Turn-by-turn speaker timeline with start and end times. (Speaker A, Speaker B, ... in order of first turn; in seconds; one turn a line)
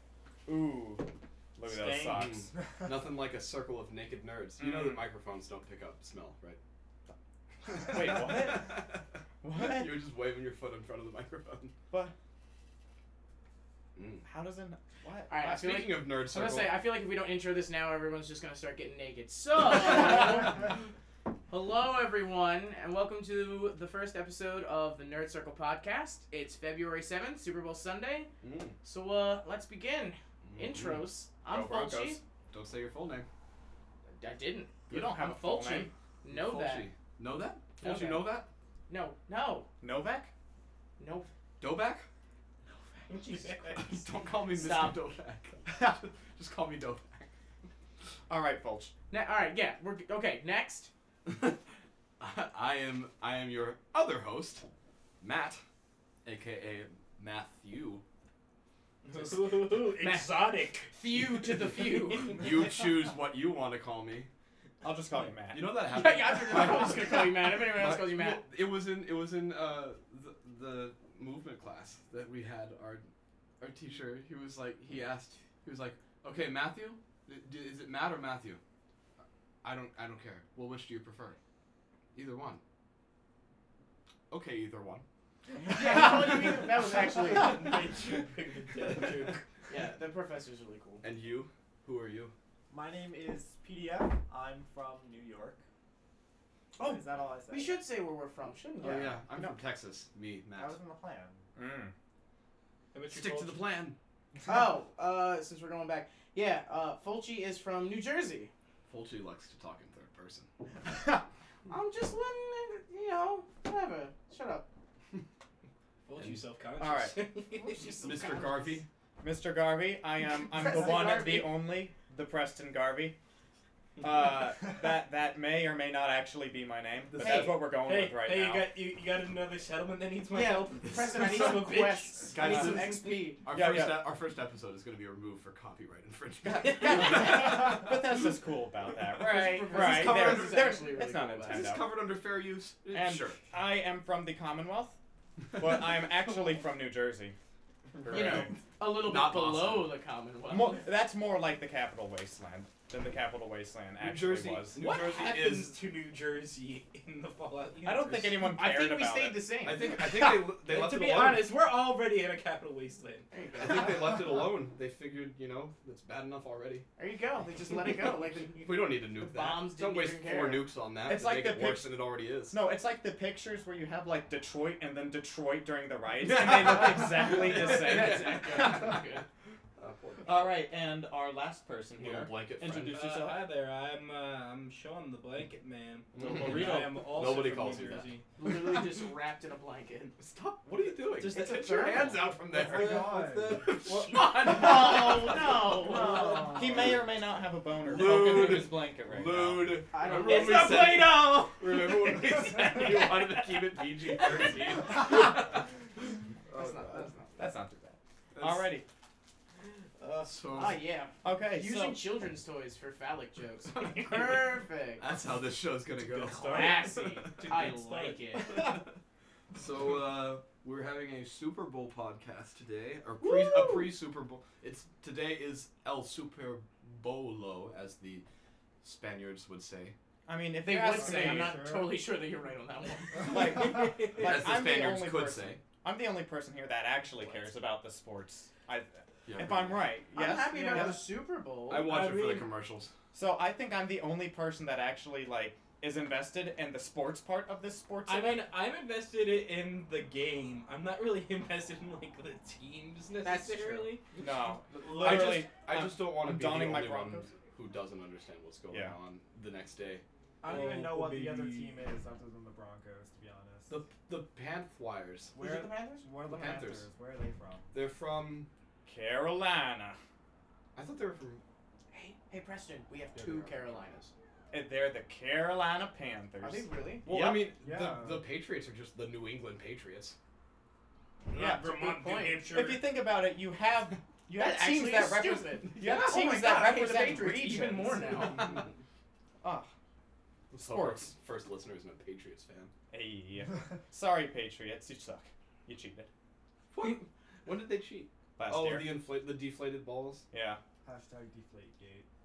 Speaker A: 0.5-2.5
Speaker B: 2.0-6.6
Speaker A: 4.6-5.0
Speaker A: 7.7-8.8
Speaker B: 7.7-11.7
Speaker A: 9.4-10.0
Speaker B: 14.0-14.2
Speaker A: 14.2-15.6
Speaker C: 15.3-20.9
Speaker B: 15.4-16.8
Speaker C: 21.5-28.3
Speaker B: 28.4-28.8
Speaker C: 28.8-32.2
Speaker B: 30.4-31.1
Speaker A: 31.5-32.2
Speaker B: 32.5-33.3
Speaker C: 34.2-36.9
Speaker A: 34.9-35.9
Speaker B: 36.3-38.5
Speaker C: 37.8-39.7
Speaker A: 39.8-40.3
Speaker C: 41.0-41.3
Speaker B: 41.6-42.1
Speaker C: 42.8-43.8
Speaker D: 43.1-44.0
Speaker B: 43.7-47.3
Speaker C: 44.5-45.0
Speaker A: 48.3-48.9
Speaker C: 49.1-50.9
Speaker B: 51.3-51.6
Speaker B: 52.2-54.7
Speaker B: 55.2-55.6
Speaker B: 56.2-58.0
Speaker D: 59.0-61.0
Speaker C: 59.7-62.5
Speaker D: 62.1-62.4
Speaker B: 62.4-64.3
Speaker A: 64.8-65.8
Speaker B: 65.5-73.1
Speaker C: 65.9-68.4
Speaker B: 73.6-78.6
Speaker B: 79.6-81.4
Speaker B: 82.1-82.6
Speaker B: 84.3-85.0
Speaker C: 85.7-87.7
Speaker E: 85.7-86.3
Speaker D: 87.2-89.4
Speaker C: 89.7-91.0
Speaker B: 91.0-92.3
Speaker E: 92.7-95.6
Speaker E: 96.8-97.8
Speaker C: 96.8-99.2
Speaker B: 98.8-100.8
Speaker A: 98.8-99.5
Speaker E: 100.5-101.5
Speaker A: 101.6-101.9
Speaker D: 102.9-103.6
Speaker B: 103.1-104.0
Speaker C: 104.5-108.5
Speaker B: 108.9-110.5
Speaker A: 110.9-111.2
Speaker C: 111.7-114.7
Speaker D: 116.1-118.0
Speaker B: 116.2-116.5
Speaker A: 116.8-117.2
Speaker C: 117.5-118.8
Speaker B: 118.0-118.9
Speaker A: 119.2-123.2
Speaker C: 120.6-121.5
Speaker A: 124.0-128.7
Speaker B: 127.1-127.6
Speaker D: 127.2-133.2
Speaker C: 130.3-133.4
Speaker B: 131.2-131.5
Speaker B: 132.3-138.0
Speaker A: 133.5-134.1
Speaker A: 136.4-141.8
Speaker C: 139.2-141.7
Speaker B: 139.2-140.8
Speaker B: 141.5-143.4
Speaker A: 142.9-145.0
Speaker A: 145.6-147.4
Speaker B: 147.9-149.9
Speaker A: 148.1-148.5
Speaker C: 148.1-150.9
Speaker A: 150.5-154.8
Speaker B: 154.0-155.8
Speaker D: 154.8-158.5
Speaker A: 157.8-159.4
Speaker C: 158.5-159.9
Speaker B: 159.6-161.5
Speaker D: 160.1-163.3
Speaker C: 163.3-164.0
Speaker B: 163.6-166.9
Speaker C: 167.0-168.7
Speaker B: 168.6-172.6
Speaker C: 169.2-170.7
Speaker A: 171.1-179.0
Speaker B: 176.2-179.0
Speaker C: 177.3-179.2
Speaker B: 179.8-180.6
Speaker A: 180.2-183.4
Speaker B: 181.9-183.0
Speaker D: 182.7-188.2
Speaker B: 186.1-188.1
Speaker C: 188.4-190.2
Speaker B: 190.2-197.1
Speaker D: 191.2-191.9
Speaker C: 191.3-192.3
Speaker D: 192.4-195.3
Speaker E: 192.6-193.8
Speaker C: 194.1-196.5
Speaker E: 195.8-196.9
Speaker A: 195.9-199.8
Speaker B: 197.8-205.7
Speaker C: 199.9-201.0
Speaker D: 200.2-201.7
Speaker C: 206.5-207.4
Speaker A: 207.4-208.8
Speaker B: 208.3-208.7
Speaker B: 210.0-210.8
Speaker C: 210.5-215.1
Speaker A: 211.2-212.0
Speaker B: 215.0-217.2
Speaker D: 216.0-218.7
Speaker C: 216.4-218.8
Speaker B: 219.5-228.2
Speaker D: 223.2-223.9
Speaker B: 228.8-229.9
Speaker A: 230.3-231.6
Speaker C: 230.6-233.4
Speaker E: 230.9-232.0
Speaker D: 233.2-234.5
Speaker A: 233.2-241.0
Speaker B: 234.1-235.6
Speaker B: 239.3-239.8
Speaker C: 240.1-241.9
Speaker D: 240.5-240.9
Speaker B: 241.7-242.9
Speaker D: 241.8-242.5
Speaker A: 243.1-248.5
Speaker D: 248.1-255.5
Speaker C: 253.2-253.9
Speaker A: 254.2-257.3
Speaker B: 255.0-260.0
Speaker D: 260.4-261.9
Speaker E: 260.4-263.8
Speaker B: 263.7-265.4
Speaker E: 265.3-267.6
Speaker C: 265.4-266.1
Speaker B: 266.3-266.9
Speaker B: 267.7-268.5
Speaker A: 268.9-270.0
Speaker B: 270.8-271.4
Speaker C: 271.9-274.1
Speaker B: 273.1-273.8
Speaker A: 274.5-277.5
Speaker C: 276.4-277.1
Speaker B: 277.1-280.2
Speaker E: 277.6-278.3
Speaker D: 281.3-282.8
Speaker A: 281.3-281.6
Speaker C: 281.6-282.5
Speaker A: 282.5-288.3
Speaker C: 284.4-288.6
Speaker B: 285.8-286.3
Speaker D: 288.1-288.4
Speaker A: 289.4-289.7
Speaker B: 290.5-292.7
Speaker A: 290.6-291.1
Speaker A: 292.9-296.1
Speaker B: 296.7-300.3
Speaker A: 298.4-298.9
Speaker A: 300.3-300.6
Speaker E: 300.8-302.1